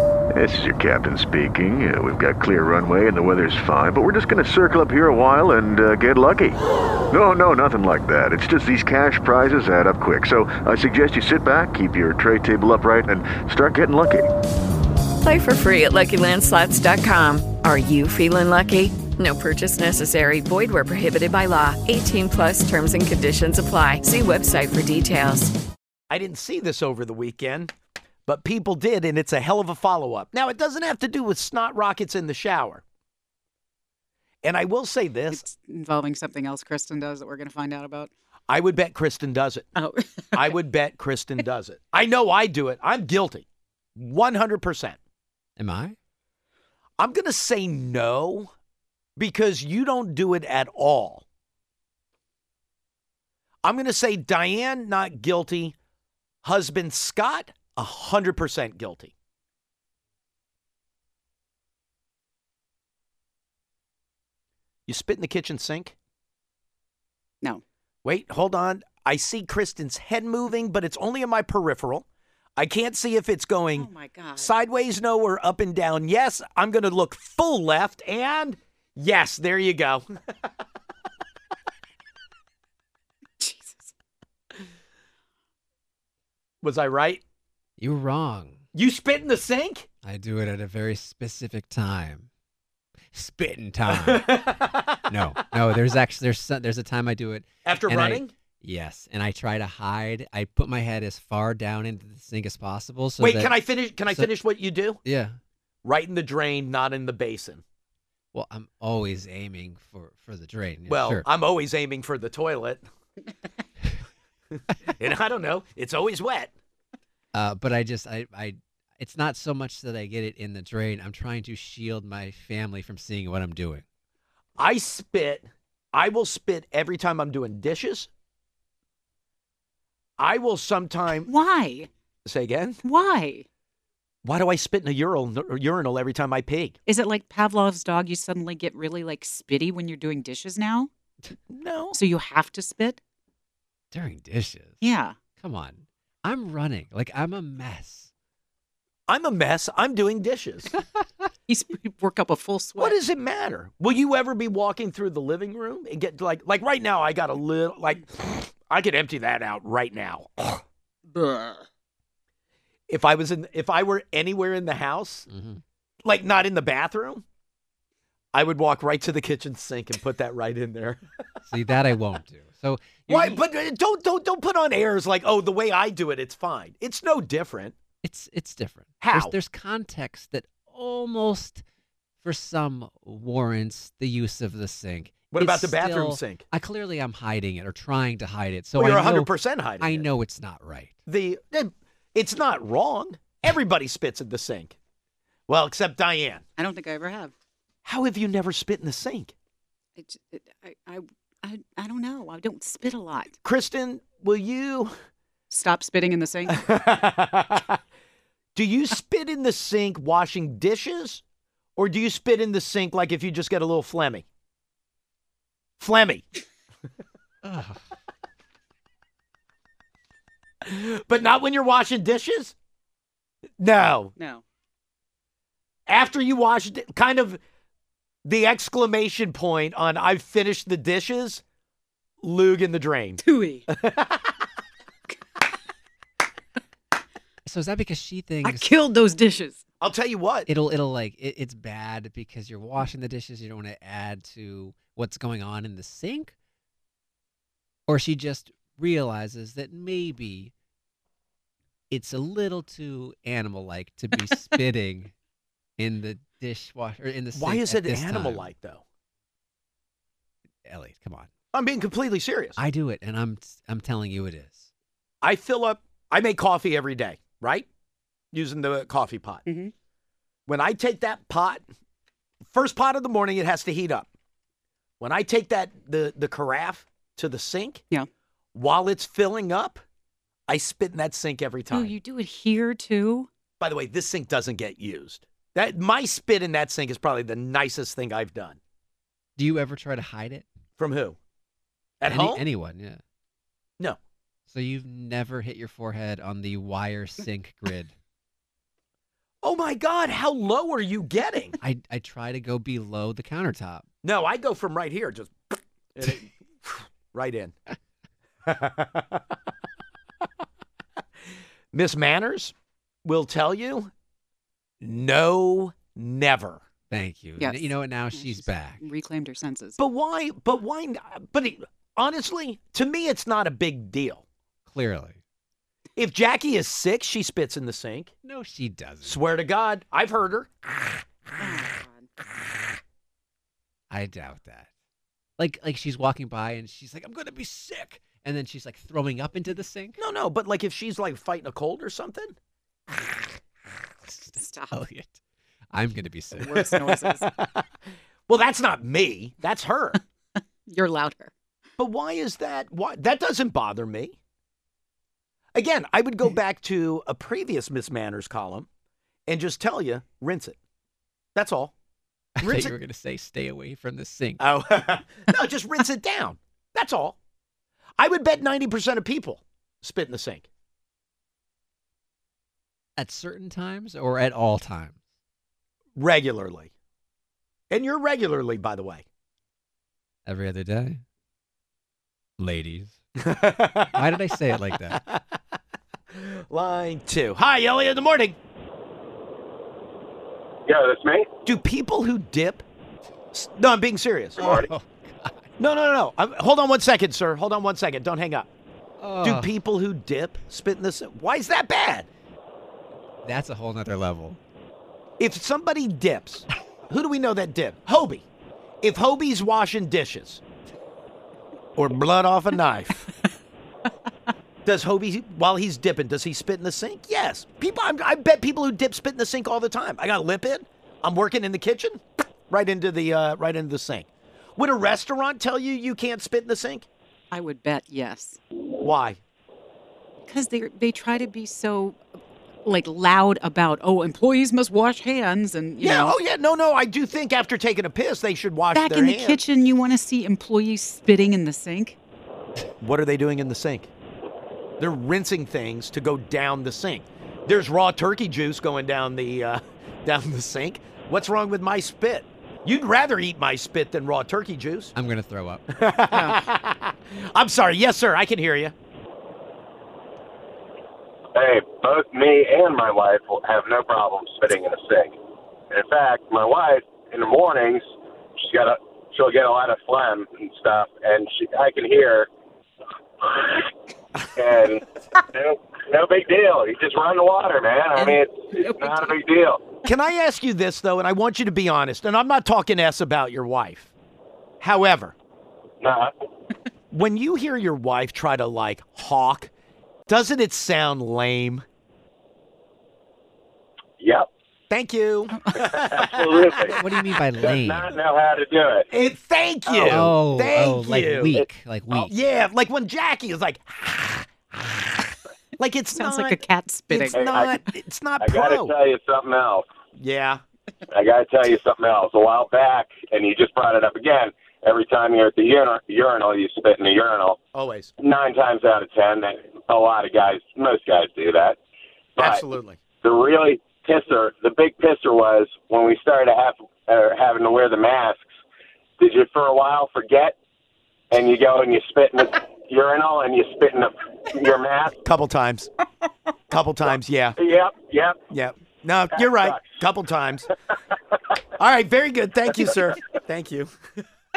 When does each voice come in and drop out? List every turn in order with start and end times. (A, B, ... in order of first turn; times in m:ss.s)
0:00.3-0:14.3 A
0:15.2-0:25.5 B
0:26.1-0:27.7 C
0:28.3-0:32.8 C
0:34.4-0:35.5 C
0:35.3-0:38.1 D
0:38.5-0:39.7 C
0:39.8-0:40.6 D
0:40.3-0:43.4 C
0:44.0-0:45.0 C
0:45.6-0:45.9 E
0:47.0-0:48.5 C
0:49.2-0:51.2 C
0:53.6-0:55.8 C
0:56.4-0:59.1 C
1:04.9-1:05.9 C
1:08.0-1:12.0 C
1:12.6-1:20.1 C
1:13.8-1:14.5 D
1:23.4-1:23.9 D
1:26.6-1:27.2 C
1:27.8-1:28.6 E
1:28.7-1:29.9 C
1:30.0-1:32.3 E
1:33.1-1:34.6 E
1:33.9-1:35.0 C
1:35.1-1:44.3 E
1:37.6-1:38.3 C
1:43.2-1:45.0 C
1:45.0-1:45.4 E
1:45.8-1:47.6 C
1:48.3-1:51.2 E
1:50.9-1:52.8 C
1:54.9-1:56.5 C
1:57.3-2:03.8 E
2:04.6-2:08.1 C
2:10.2-2:11.3 C
2:11.1-2:11.9 D
2:12.2-2:12.8 C
2:12.8-2:13.4 D
2:14.2-2:16.8 C
2:16.9-2:20.9 D
2:21.5-2:22.0 C
2:21.9-2:23.0 D
2:23.9-2:24.8 E
2:24.8-2:25.2 D
2:25.4-2:28.1 E
2:29.1-2:30.7 C
2:31.5-2:33.0 D
2:32.8-2:40.6 C
2:41.1-2:41.6 D
2:42.9-2:45.3 C
2:45.3-2:45.6 E
2:46.0-2:47.2 C
2:48.3-2:51.0 C
2:51.5-2:53.4 E
2:53.1-2:57.8 C
2:58.0-3:01.6 E
2:59.0-2:59.3 C
3:02.2-3:11.0 E
3:05.3-3:06.4 C
3:08.8-3:10.1 C
3:11.0-3:14.7 C
3:15.5-3:16.4 C
3:16.6-3:17.3 D
3:17.8-3:19.3 C
3:20.0-3:23.3 D
3:23.4-3:24.9 C
3:25.5-3:26.7 D
3:26.6-3:27.8 C
3:28.6-3:31.2 C
3:31.8-3:34.2 C
3:35.8-3:36.2 C
3:37.4-3:37.8 E
3:40.6-3:42.5 C
3:43.6-3:44.1 C
3:44.2-3:44.4 D
3:45.9-3:47.4 C
3:48.2-3:51.4 C
3:52.2-3:53.2 C
3:53.2-3:53.7 D
3:53.7-3:54.4 C
3:57.4-3:58.7 E
3:58.4-3:59.6 D
3:59.8-4:00.5 C
4:00.5-4:06.3 E
4:07.9-4:10.5 E
4:11.9-4:15.1 E
4:15.8-4:18.5 E
4:17.3-4:18.8 C
4:20.7-4:21.3 E
4:21.5-4:22.6 C
4:22.6-4:24.7 E
4:25.2-4:27.7 C
4:28.3-4:29.4 C
4:29.5-4:29.7 D
4:30.5-4:31.6 C
4:32.5-4:34.1 C
4:35.0-4:37.8 C
4:38.5-4:39.8 C
4:40.5-4:41.9 C
4:41.7-4:43.3 D
4:43.6-4:48.6 C
4:49.4-4:50.4 E
4:50.8-4:51.2 C
4:52.0-4:52.4 C
4:52.1-4:53.0 E
4:54.5-4:57.9 E
4:59.4-5:01.5 C
5:01.6-5:03.8 E
5:04.0-5:05.3 C
5:06.0-5:07.5 C
5:08.4-5:09.2 C
5:11.7-5:12.5 C
5:13.0-5:13.9 C
5:14.8-5:16.6 C
5:16.9-5:18.8 E
5:17.4-5:19.8 D
5:19.8-5:24.2 C
5:24.7-5:25.2 E
5:26.0-5:28.1 C
5:28.2-5:29.2 E
5:29.0-5:31.0 C
5:31.4-5:32.1 D
5:33.9-5:34.7 E
5:35.4-5:40.0 E
5:40.0-5:42.3 C
5:44.1-5:45.2 E
5:44.3-5:44.8 D
5:45.7-5:46.7 E
5:46.4-5:47.3 D
5:46.5-5:47.6 C
5:48.3-5:50.0 C
5:50.4-5:51.3 D
5:51.8-5:54.2 C
5:55.5-5:58.7 C
5:59.3-6:00.6 C
6:01.3-6:01.7 C
6:02.4-6:04.4 E
6:02.4-6:02.8 C
6:04.4-6:07.2 C
6:08.0-6:10.5 C
6:13.0-6:15.0 E
6:16.0-6:16.7 C
6:17.7-6:19.0 C
6:20.2-6:21.0 E
6:22.4-6:22.9 E
6:23.2-6:24.0 C
6:23.9-6:25.0 E
6:24.9-6:25.4 C
6:26.1-6:28.4 C
6:30.7-6:31.2 F
6:31.4-6:32.6 C
6:33.3-6:34.4 C
6:34.4-6:34.7 F
6:34.4-6:35.5 E
6:35.6-6:38.5 C
6:39.0-6:39.5 E
6:39.2-6:42.1 C
6:43.2-6:44.4 E
6:45.2-6:48.2 C
6:48.8-6:50.4 C
6:51.8-6:53.0 C
6:54.6-7:06.9 C
7:07.3-7:08.4 D
7:08.8-7:09.2 C
7:10.3-7:12.0 D
7:12.6-7:16.2 D
7:15.8-7:19.4 C
7:18.7-7:22.0 D
7:22.8-7:23.9 C
7:24.8-7:34.9 C
7:35.0-7:35.6 E
7:35.7-7:38.7 C
7:36.1-7:36.4 D
7:41.3-7:45.1 F
7:45.7-7:47.8 F
7:48.4-7:52.3 F
7:53.2-7:53.7 F
7:54.4-7:59.6 F
7:58.0-7:59.1 D
7:59.8-8:03.9 C
8:04.6-8:05.1 C
8:05.8-8:06.1 F
8:06.9-8:09.5 C
8:10.1-8:11.6 C
8:14.0-8:14.2 F
8:14.7-8:16.8 C
8:15.7-8:16.8 F
8:16.8-8:17.9 E
8:17.4-8:18.8 F
8:18.9-8:26.4 C
8:19.7-8:20.0 F
8:19.8-8:22.1 E
8:25.9-8:27.3 D
8:26.9-8:28.7 C
8:27.1-8:27.5 F
8:28.2-8:29.6 F
8:30.0-8:30.4 C
8:30.9-8:37.4 F
8:37.5-8:37.9 C
8:38.0-8:41.6 F
8:42.2-8:42.8 C
8:43.0-8:48.2 F
8:49.0-8:50.3 F
8:51.1-8:54.9 F
8:55.0-8:55.7 C
8:56.5-8:57.4 C
8:57.4-8:58.2 F
8:58.3-9:00.5 C
8:59.2-8:59.6 F
9:01.6-9:03.7 C